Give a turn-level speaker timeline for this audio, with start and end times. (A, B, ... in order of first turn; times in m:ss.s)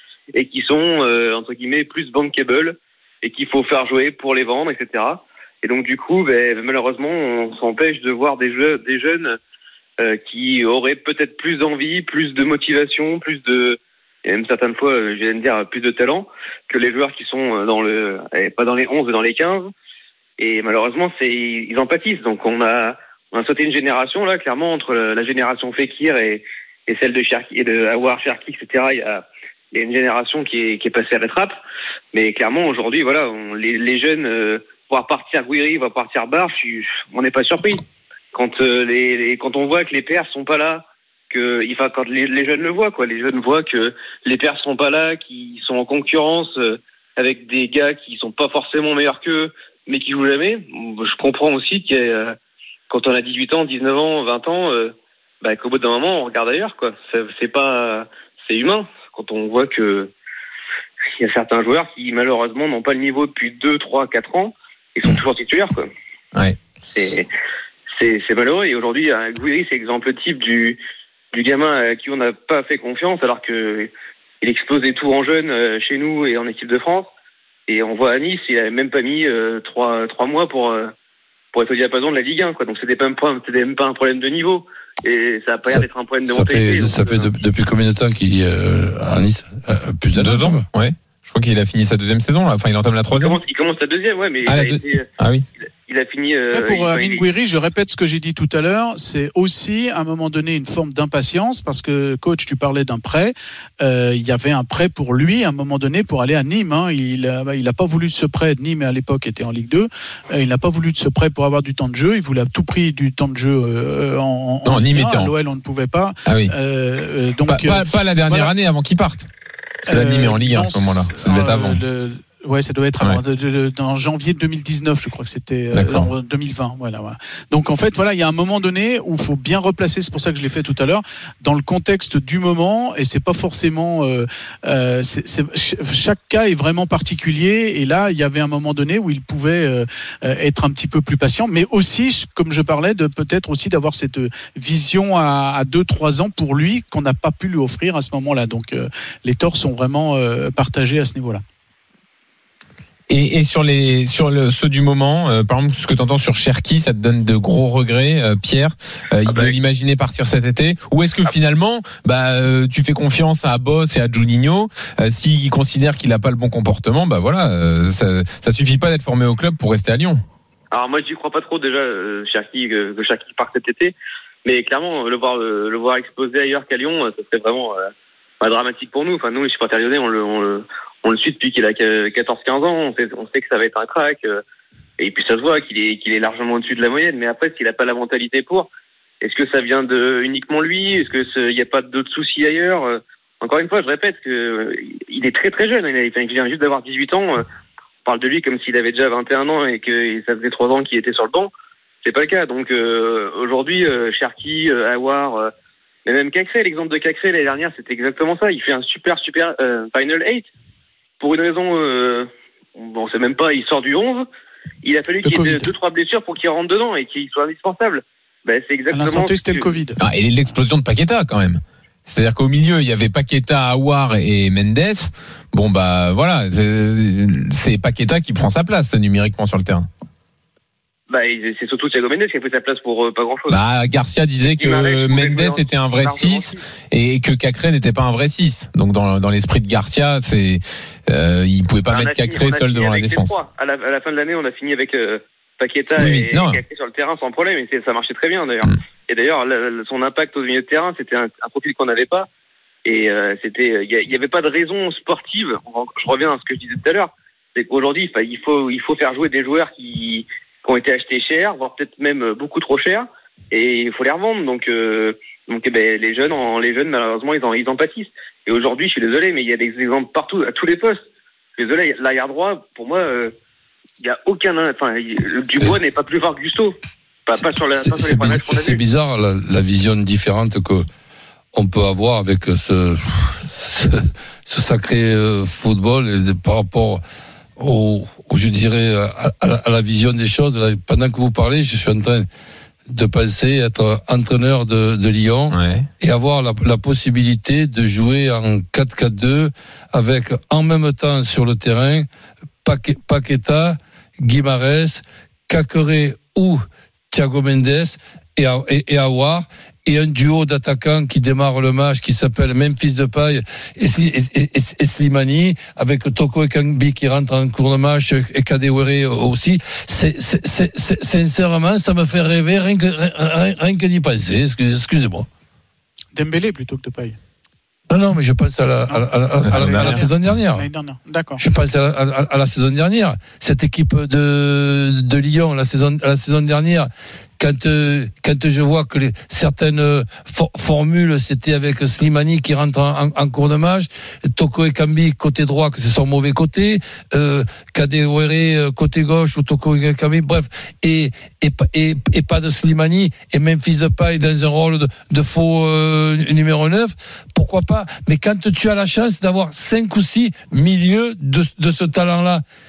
0:00.3-0:09.4 A
0:10.0-0:19.7 A
0:20.4-0:31.6 A
0:32.1-0:52.4 A
0:52.9-1:00.1 A
1:01.2-1:05.9 A
1:06.9-1:07.3 A
1:08.0-1:10.8 A
1:11.3-1:17.1 A
1:17.7-1:20.9 A
1:21.5-1:27.3 A
1:25.7-1:30.6 B
1:30.1-1:33.4 C
1:33.2-1:35.1 A
1:34.5-1:35.4 C
1:35.9-1:37.2 A
1:36.5-1:58.5 D
1:54.6-1:55.3 C
1:56.3-1:56.5 C
1:57.5-1:59.3 C
1:59.9-2:01.8 C
1:59.9-2:31.4 D
2:05.7-2:06.1 C
2:33.1-2:50.2 C
2:39.3-2:39.5 A
2:50.7-3:04.4 A
3:05.0-3:08.7 A
3:09.2-3:17.4 A
3:18.0-3:21.5 A
3:22.0-3:25.5 A
3:26.0-3:30.5 A
3:31.2-3:34.3 A
3:34.8-3:39.7 A
3:35.2-3:35.7 D
3:38.9-3:40.0 D
3:40.0-3:49.9 C
3:51.1-3:53.6 A
3:53.5-4:03.4 C
3:54.6-3:56.6 A
4:01.9-4:12.3 A
4:06.0-4:06.6 C
4:12.8-4:31.0 A
4:31.6-4:33.3 A
4:34.0-4:36.8 A
4:37.3-4:38.8 A
4:37.8-4:40.9 B
4:41.5-4:47.0 B
4:47.6-4:52.3 B
4:52.9-5:02.1 B
4:55.5-4:55.9 C
5:02.6-5:06.6 B
5:07.1-5:25.3 B
5:26.2-5:27.2 D
5:27.9-5:30.7 B
5:28.9-5:31.4 D
5:29.4-5:30.0 C
5:31.4-6:02.4 B